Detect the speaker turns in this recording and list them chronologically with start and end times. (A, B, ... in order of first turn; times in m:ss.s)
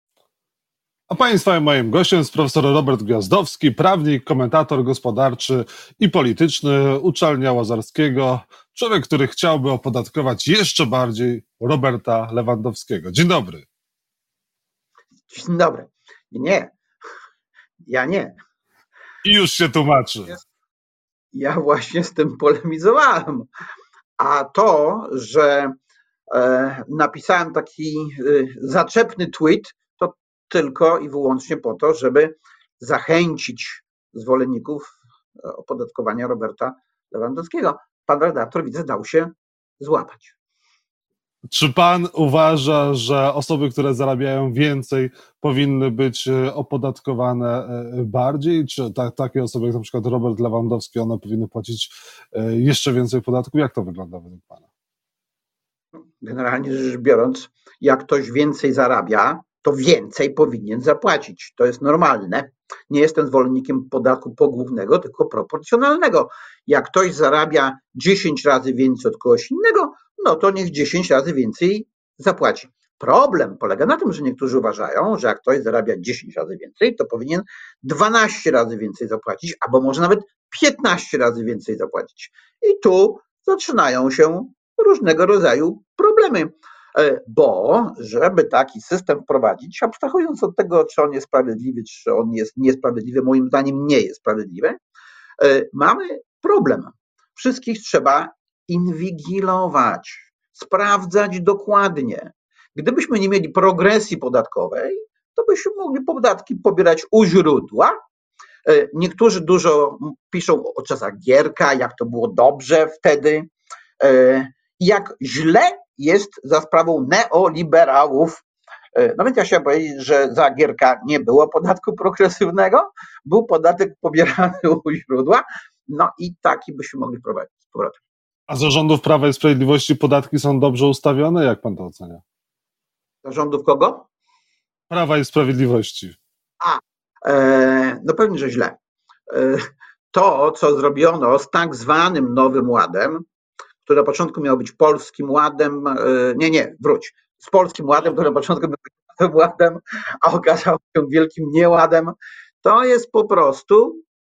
0:01.1-0:13.7 A
0:15.3-0:16.8 B
0:17.8-0:18.4 B
0:19.2-0:20.4 A
0:21.3-0:23.5 B
0:24.2-0:25.8 B
0:26.3-0:40.4 B
0:41.5-0:54.7 A
0:56.2-1:34.8 B
1:35.4-1:47.9 B
1:48.7-1:53.5 B
1:54.0-1:58.4 B
1:59.0-2:08.0 B
2:08.5-2:12.2 A
2:13.2-2:14.1 B
2:14.9-2:16.2 A
2:16.6-2:18.8 B
2:19.3-2:19.6 B
2:20.1-2:23.3 B
2:23.8-2:34.0 B